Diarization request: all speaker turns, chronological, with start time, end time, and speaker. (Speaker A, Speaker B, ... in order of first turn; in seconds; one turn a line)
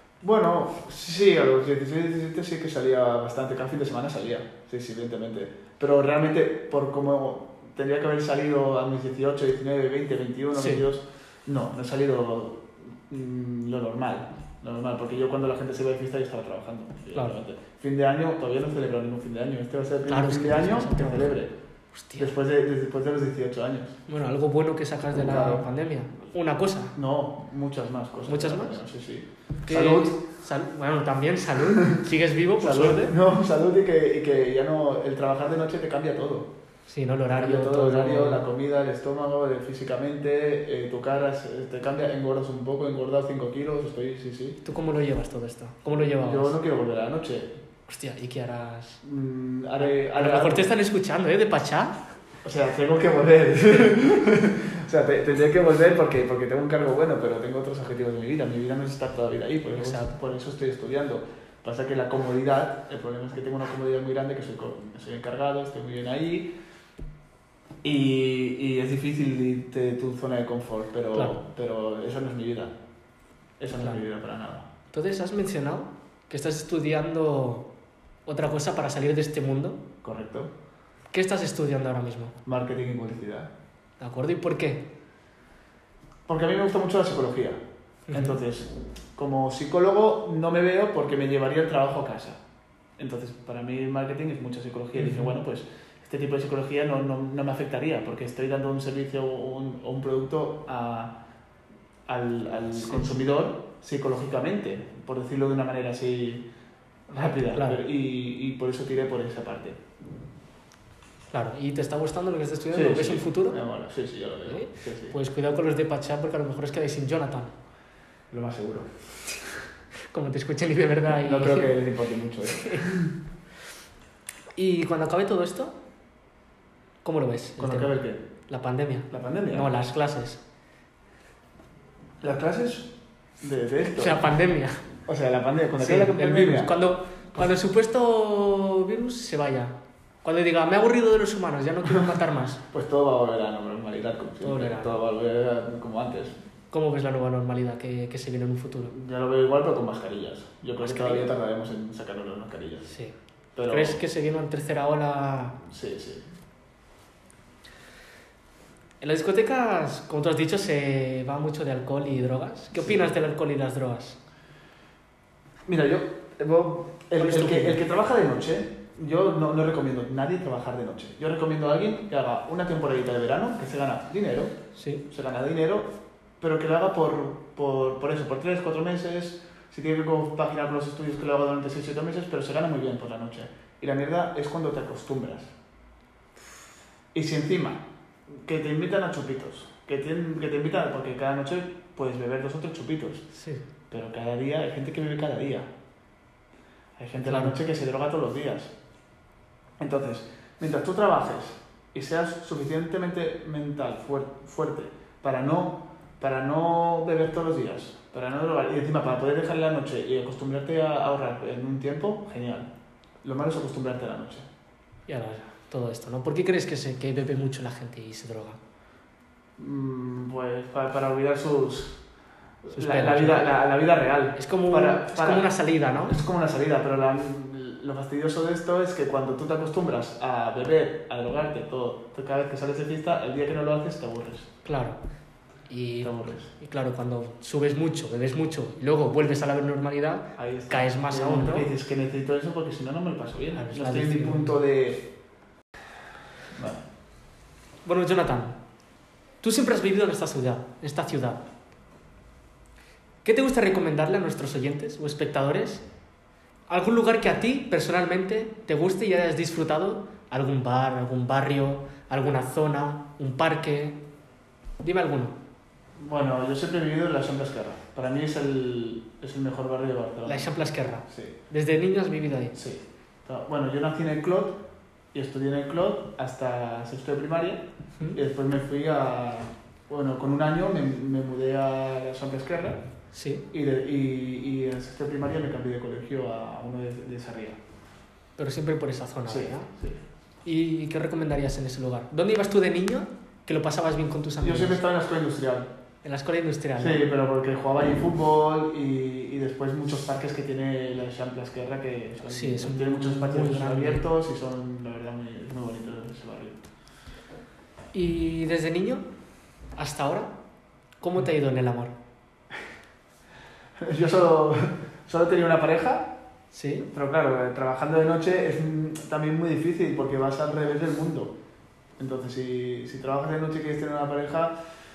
Speaker A: 0.2-21.6
Speaker B: 10.6-10.8
Speaker B: 20.1-21.4
Speaker B: 21.9-22.3
Speaker A: 22.2-24.0
Speaker B: 24.1-26.9
Speaker A: 25.2-25.7
Speaker A: 26.9-30.2
Speaker B: 28.3-28.8
Speaker B: 29.7-33.1
Speaker A: 31.6-32.0
Speaker A: 32.6-36.5
Speaker B: 36.9-38.4
Speaker A: 37.3-44.6
Speaker B: 44.6-46.6
Speaker A: 46.2-47.6
Speaker B: 47.9-49.0
Speaker A: 49.0-50.7
Speaker B: 49.8-52.0
Speaker A: 52.4-66.5
Speaker B: 59.8-60.1
Speaker A: 67.8-72.8
Speaker A: 73.6-74.7
Speaker B: 74.9-77.7
Speaker B: 78.3-79.8
Speaker A: 80.0-80.5
Speaker B: 81.1-82.4
Speaker A: 82.5-83.5
Speaker B: 84.0-84.9
Speaker A: 86.3-92.4
Speaker B: 88.1-88.4
Speaker A: 93.0-101.2
Speaker B: 95.0-95.3
Speaker A: 102.1-106.5
Speaker B: 102.8-103.1
Speaker A: 107.1-109.8
Speaker B: 107.2-107.8
Speaker B: 111.3-113.6
Speaker A: 112.7-115.2
Speaker B: 114.5-117.5
Speaker A: 118.3-118.9
Speaker B: 120.1-121.7
Speaker A: 121.1-123.1
Speaker B: 122.5-122.9
Speaker B: 124.6-125.8
Speaker B: 127.0-128.0
Speaker A: 127.6-128.2
Speaker B: 128.5-130.4
Speaker A: 129.1-129.7
Speaker A: 132.2-134.3
Speaker B: 134.0-134.8
Speaker A: 135.1-136.7
Speaker B: 135.8-142.6
Speaker A: 142.7-146.4
Speaker B: 144.4-144.9
Speaker B: 146.7-148.9
Speaker A: 148.9-152.9
Speaker B: 150.8-151.3
Speaker B: 152.9-153.1
Speaker A: 153.6-154.0
Speaker B: 153.7-155.6
Speaker A: 155.6-156.3
Speaker B: 159.0-164.2
Speaker A: 162.7-163.1
Speaker A: 165.7-174.6
Speaker B: 167.2-167.8
Speaker B: 174.8-175.0
Speaker A: 175.1-185.5
Speaker A: 187.1-193.3
Speaker B: 193.3-193.6
Speaker A: 193.9-195.7
Speaker A: 197.0-198.7
Speaker B: 197.2-197.6
Speaker A: 199.8-212.7
Speaker A: 213.2-214.5
Speaker B: 215.1-218.6
Speaker A: 219.6-222.0
Speaker A: 222.6-225.5
Speaker B: 222.7-223.5
Speaker B: 224.4-226.2
Speaker A: 226.0-234.5
Speaker B: 234.7-235.0
Speaker B: 235.7-241.7
Speaker A: 236.0-236.5
Speaker A: 240.4-245.1
Speaker B: 243.6-244.6
Speaker A: 246.5-246.8
Speaker B: 247.8-248.6
Speaker B: 249.4-251.4
Speaker B: 253.2-255.8
Speaker B: 256.7-264.0
Speaker B: 264.8-265.4
Speaker A: 266.0-270.5
Speaker B: 270.2-272.6
Speaker A: 271.1-271.4
Speaker A: 272.5-274.6
Speaker A: 275.1-282.8
Speaker B: 283.1-283.4
Speaker A: 283.5-287.6
Speaker B: 288.4-289.7
Speaker A: 289.3-290.0
Speaker B: 290.4-294.8
Speaker A: 294.4-295.7
Speaker B: 296.0-297.1
Speaker A: 296.8-306.6
Speaker B: 302.3-304.1
Speaker B: 307.9-309.0
Speaker B: 309.8-310.3
Speaker B: 311.0-311.9
Speaker A: 313.8-316.1
Speaker B: 316.5-316.9
Speaker A: 316.9-321.3
Speaker A: 322.0-324.5